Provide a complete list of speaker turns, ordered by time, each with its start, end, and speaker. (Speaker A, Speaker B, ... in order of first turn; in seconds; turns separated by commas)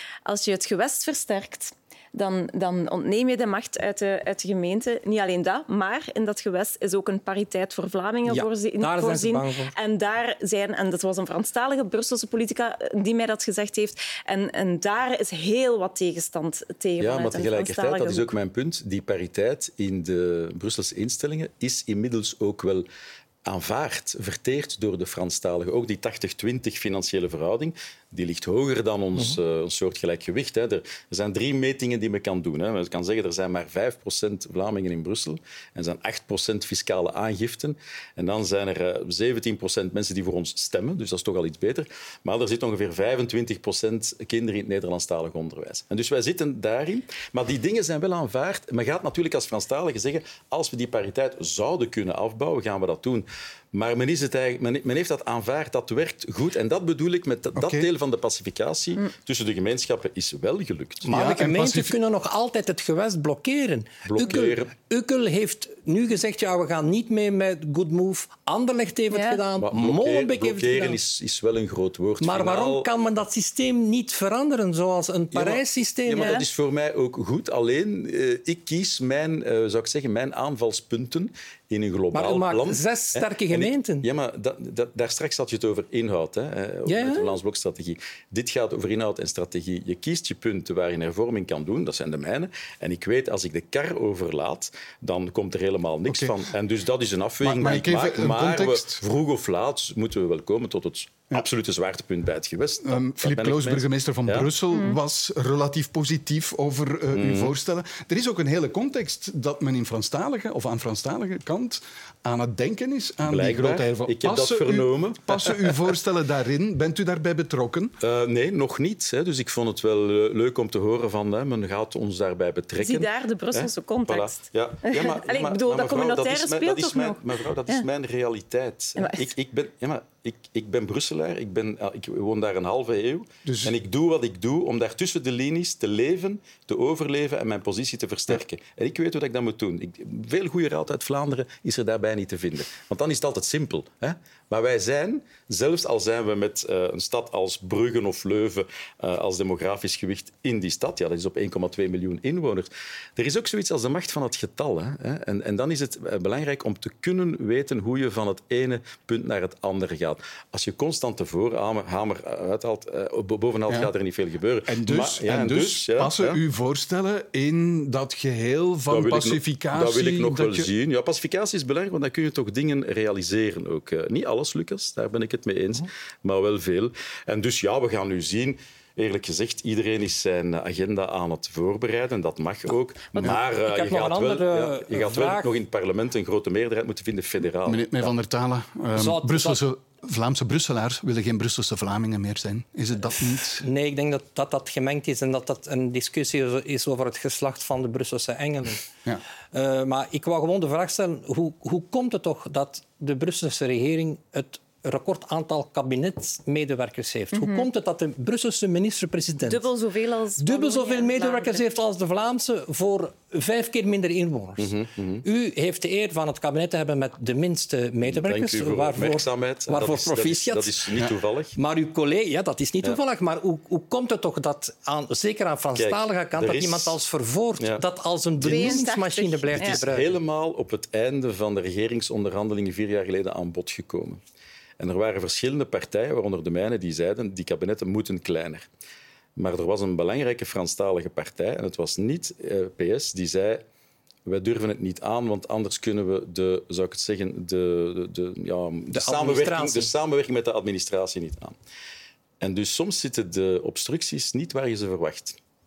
Speaker A: 0.3-18.3, Speaker B: 8.3-9.7, Speaker C: 17.0-22.9, Speaker C: 23.4-61.1, Speaker D: 57.6-57.9, Speaker B: 61.1-71.0, Speaker D: 61.1-61.9, Speaker C: 64.1-64.7, Speaker A: 69.1-69.4, Speaker C: 69.6-72.8, Speaker B: 72.2-76.3, Speaker C: 75.3-104.5, Speaker A: 76.2-76.4, Speaker B: 82.1-84.1, Speaker B: 86.9-87.3, Speaker D: 96.1-96.4, Speaker D: 97.4-99.0, Speaker D: 102.8-117.9, Speaker A: 104.7-105.0, Speaker C: 107.1-107.5, Speaker C: 113.2-115.8, Speaker C: 118.0-166.4, Speaker A: 122.8-127.8, Speaker A: 129.0-129.3, Speaker D: 133.5-133.7, Speaker D: 164.7-170.7, Speaker C: 168.9-188.1, Speaker B: 183.7-185.5, Speaker D: 187.7-193.7, Speaker B: 188.9-189.7, Speaker B: 193.6-198.8, Speaker B: 199.5-209.6, Speaker A: 207.3-207.7, Speaker A: 209.5-211.7, Speaker B: 210.4-214.7, Speaker C: 214.6-215.2, Speaker B: 215.2-220.8, Speaker C: 218.1-221.6, Speaker B: 221.6-230.1, Speaker C: 225.8-227.0, Speaker C: 228.4-228.8, Speaker A: 228.4-229.8, Speaker C: 229.6-234.2, Speaker C: 234.8-238.7, Speaker C: 239.4-243.6, Speaker C: 244.3-251.6, Speaker B: 248.9-249.9, Speaker C: 252.4-255.4